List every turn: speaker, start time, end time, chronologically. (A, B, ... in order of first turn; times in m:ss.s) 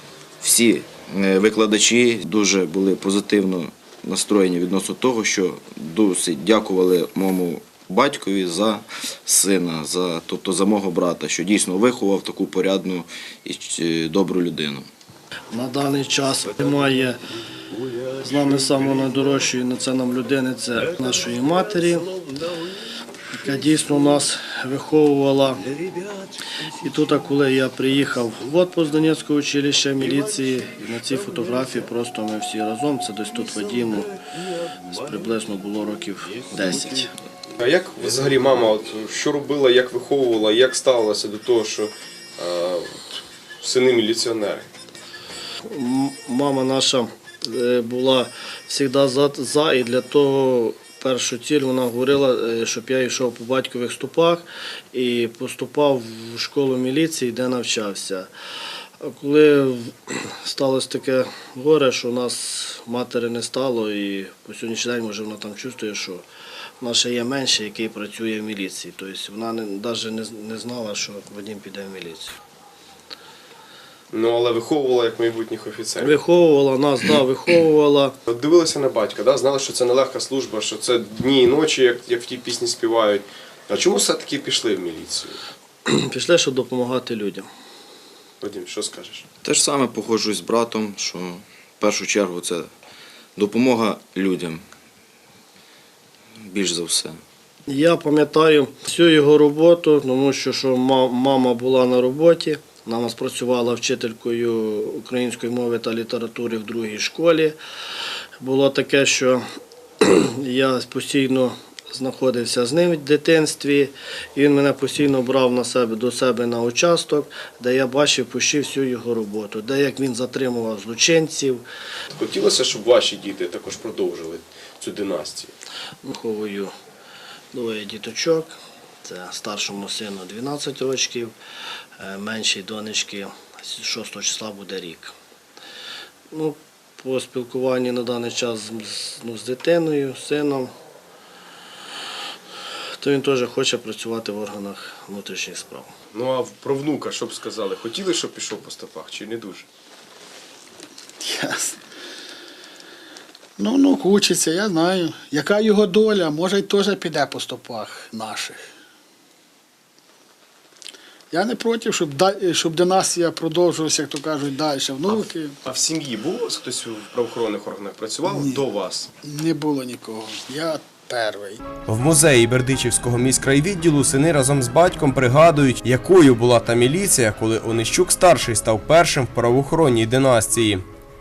0:00.4-0:14.9 A
0:15.5-0:17.2 B
0:18.1-0:22.1 B
0:23.3-0:25.7 B
0:26.6-0:34.1 B
0:34.8-0:37.1 B
0:37.6-0:44.7 C
0:45.7-0:58.3 B
0:59.0-1:06.2 B
1:06.8-1:12.4 B
1:14.1-1:16.2 C
1:16.0-1:18.2 B
1:18.3-1:25.4 C
1:25.8-1:27.5 B
1:28.4-1:29.3 C
1:29.4-1:32.7 A
1:33.4-1:34.6 A
1:36.4-1:37.2 A
1:37.7-1:47.6 B
1:48.4-1:49.4 B
1:50.0-2:01.6 B
2:02.1-2:05.5 C
2:06.0-2:06.7 B
2:07.5-2:11.3 B
2:12.0-2:15.1 B
2:16.3-2:20.7 B
2:23.0-2:25.9 B
2:26.1-2:29.7 C
2:31.2-2:31.8 D
2:33.6-2:38.6 D
2:41.3-2:45.5 D
2:45.1-2:49.1 C
2:48.2-2:48.6 D
2:49.2-2:51.6 D
2:51.9-3:00.8 E